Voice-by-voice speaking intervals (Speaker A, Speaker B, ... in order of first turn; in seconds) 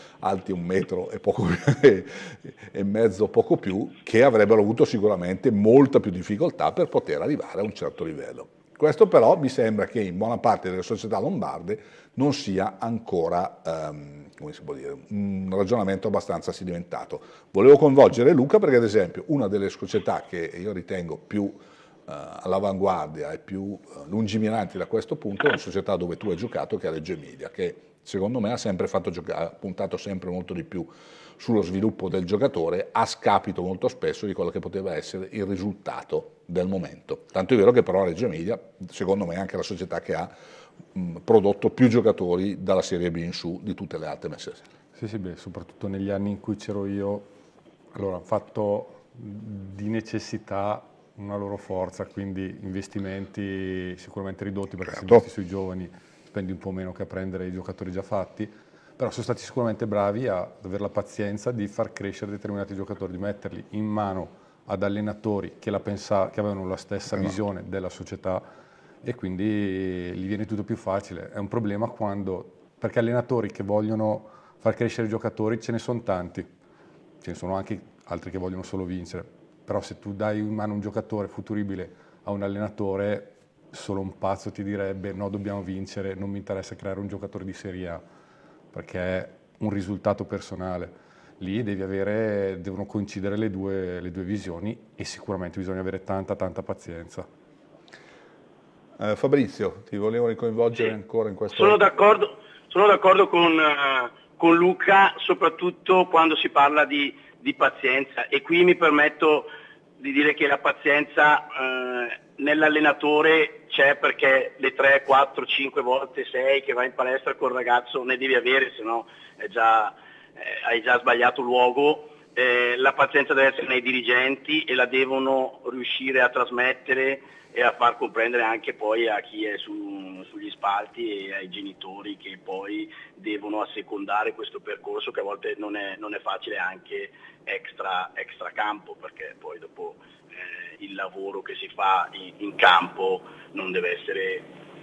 Speaker A: 0.2-40.3, 41.0-44.7, 54.9-55.2, 99.0-101.8
Speaker B: 45.0-47.3, 47.9-68.5, 69.0-76.5, 77.2-88.0, 88.7-97.3
Speaker C: 101.5-144.4